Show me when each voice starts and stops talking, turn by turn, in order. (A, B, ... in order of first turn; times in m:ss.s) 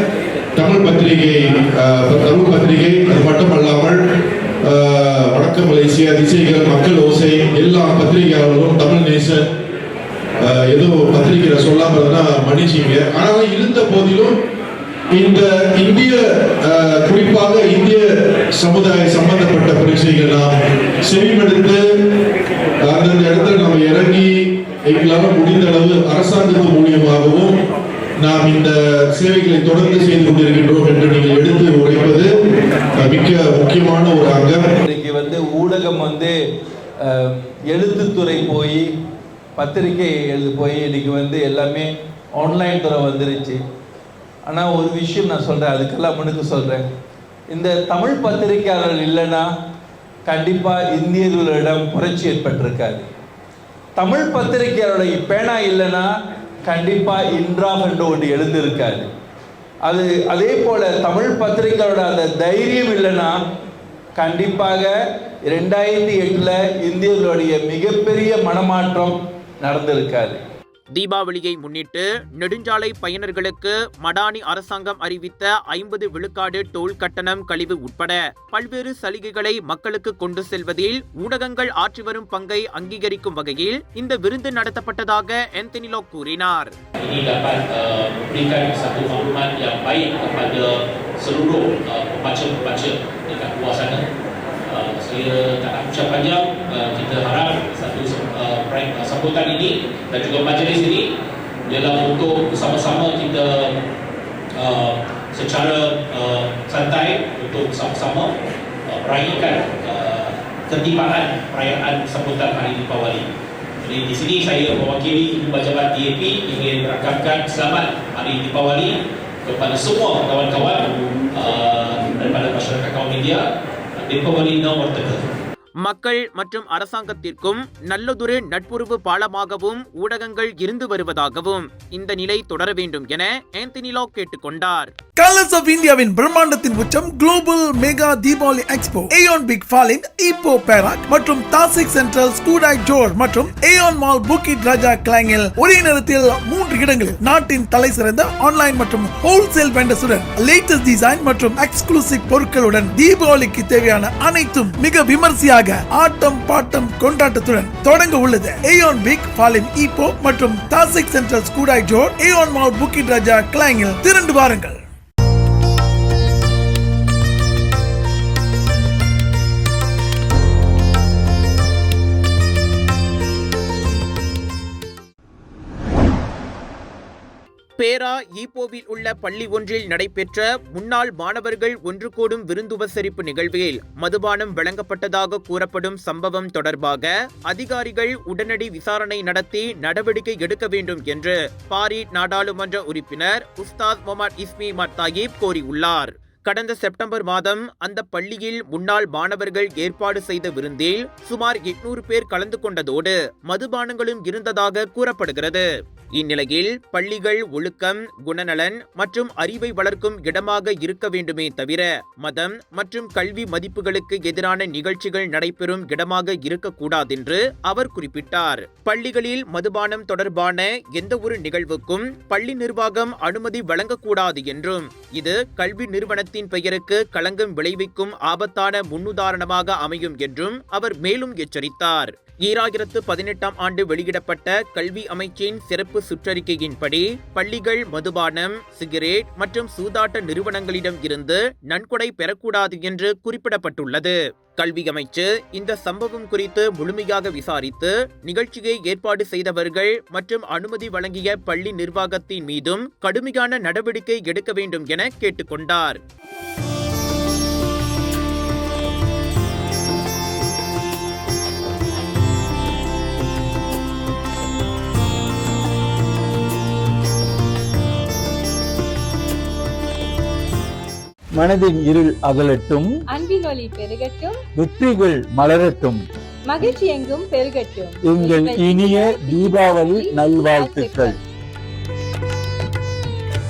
0:00.6-0:04.0 A
0:04.6-0:09.4 A
0:10.4-0:14.4 A
0:15.1-0:18.1 A
0:18.6-0:20.5 A
0:21.0-0:21.8 A
0:22.8-0:24.3 A
0:24.8-0:27.5 A
0:28.2-0:32.3 A
0:33.0-0:34.6 A
0:34.9-0:36.3 B
0:37.7-0:38.8 B
0:39.6-0:41.8 B
0:42.4-0:43.6 B
0:44.5-0:46.8 B
0:47.5-0:49.4 B
0:50.3-0:53.0 B
0:54.0-0:56.0 B
0:56.7-0:59.0 B
0:59.9-1:03.3 B
1:04.2-1:04.9 B
1:05.5-1:09.1 B
1:09.6-1:10.4 B
1:10.9-1:26.7 C
1:27.0-1:34.0 D
1:34.7-1:41.0 D
1:41.7-1:43.7 D
1:44.6-1:48.3 D
1:48.9-1:53.2 D
1:53.8-1:58.9 D
1:59.4-2:03.4 D
2:04.0-2:05.2 D
2:05.8-2:14.9 C
2:15.2-2:44.8 E
2:57.8-4:16.0 C
4:31.4-4:32.9 F
4:33.1-4:34.4 G
4:34.6-4:36.0 F
4:36.4-4:41.2 G
4:38.0-4:41.2 F